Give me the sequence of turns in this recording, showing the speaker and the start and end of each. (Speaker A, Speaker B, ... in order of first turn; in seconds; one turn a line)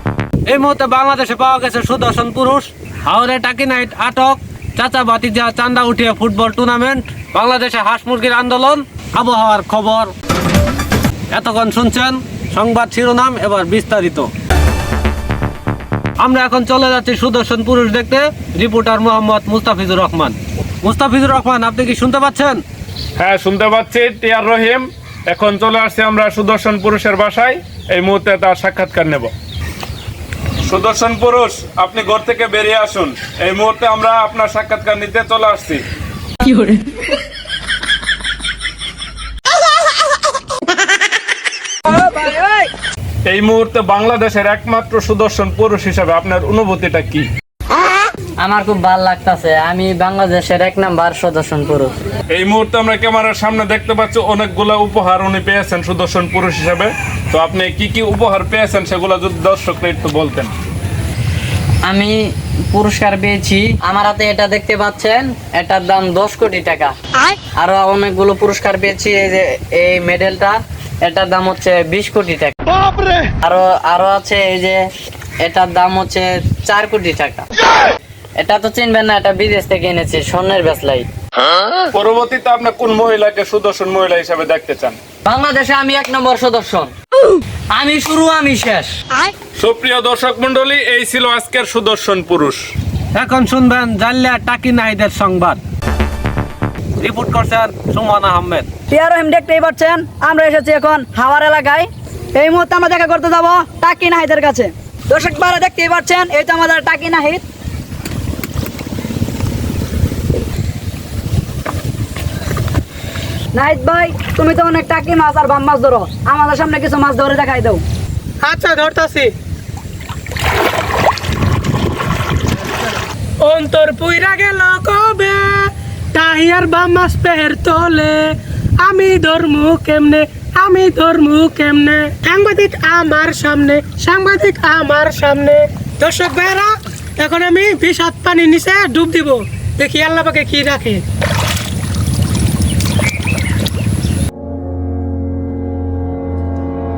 Speaker A: 0.5-10.1
Speaker A: 11.3-14.3
Speaker A: 16.2-22.6
Speaker B: 23.2-29.3
Speaker B: 30.6-35.8
Speaker C: 41.9-42.7
Speaker B: 43.3-47.3
Speaker D: 48.4-51.9
Speaker B: 52.3-60.5
Speaker D: 61.9-72.5
Speaker D: 73.4-74.8
Speaker D: 75.4-77.5
Speaker D: 78.4-81.1
Speaker B: 81.9-85.0
Speaker D: 85.3-88.9
Speaker B: 89.6-92.7
Speaker A: 93.2-95.6
Speaker A: 97.0-98.7
Speaker C: 98.9-107.4
Speaker C: 113.5-117.8
Speaker E: 118.4-119.3
Speaker E: 123.4-141.0